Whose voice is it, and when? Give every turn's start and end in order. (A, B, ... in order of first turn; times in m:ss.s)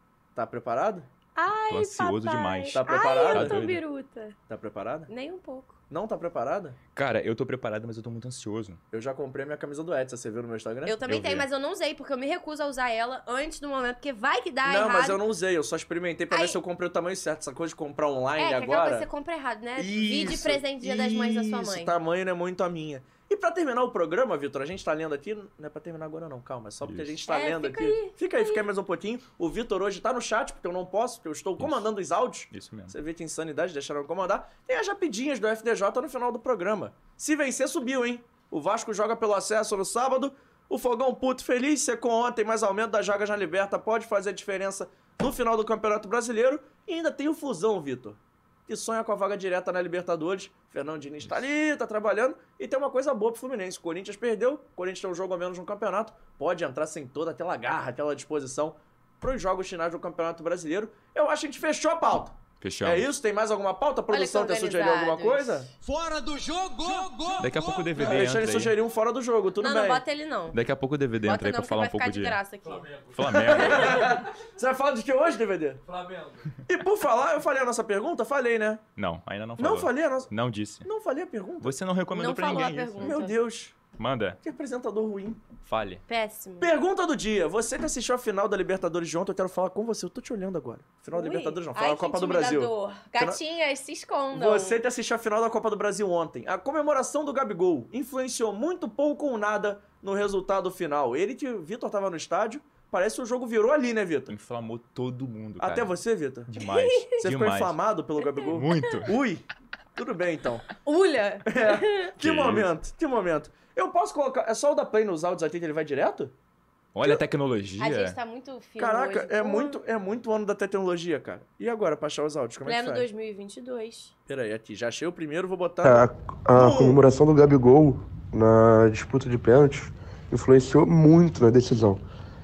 0:00.3-0:01.1 A
0:01.3-0:04.4 B
0:01.7-0:03.8 C
0:02.7-0:03.6 A
0:04.5-0:05.1 A
0:05.1-0:05.8 B
0:05.9-0:06.8 A
0:06.9-0:08.8 C
0:08.9-0:11.0 A
0:10.8-0:15.2 B
0:11.0-0:11.5 C
0:14.6-0:19.1 A
0:16.3-0:16.6 B
0:18.4-0:21.9 B
0:19.8-1:05.7 A
0:26.8-0:27.2 C
0:27.3-0:28.6 B
0:31.6-0:31.9 C
0:32.5-0:32.9 C
1:02.6-1:03.1 C
1:04.1-1:05.7 B
1:05.8-1:08.1 D
1:07.4-1:08.7 C
1:08.0-1:10.0 A
1:09.6-1:10.6 B
1:10.5-1:12.4 C
1:11.2-1:12.9 B
1:12.6-1:14.1 D
1:13.1-1:14.1 C
1:13.3-1:15.8 A
1:13.5-1:14.1 B
1:15.8-1:16.6 D
1:16.7-1:18.8 A
1:19.0-1:20.9 C
1:19.6-1:20.3 A
1:20.8-1:21.7 A
1:21.6-1:23.2 C
1:22.1-1:23.4 B
1:23.0-1:23.7 A
1:24.0-1:24.4 C
1:24.4-1:25.4 A
1:25.6-1:26.0 C
1:26.1-1:26.7 B
1:26.6-1:33.4 A
1:31.1-1:34.8 B
1:34.3-1:44.3 A
1:44.3-1:45.9 C
1:45.6-1:46.5 A
1:46.5-1:47.8 C
1:46.6-1:47.1 B
1:47.2-1:50.7 A
1:48.2-1:49.0 B
1:48.5-1:49.1 C
1:50.8-1:52.1 B
1:51.5-1:56.3 A
1:52.2-1:52.7 C
1:56.9-1:58.2 C
1:57.8-1:59.8 B
1:58.8-2:03.0 A
2:02.6-2:04.1 B
2:04.3-2:07.0 A
2:05.8-2:12.0 E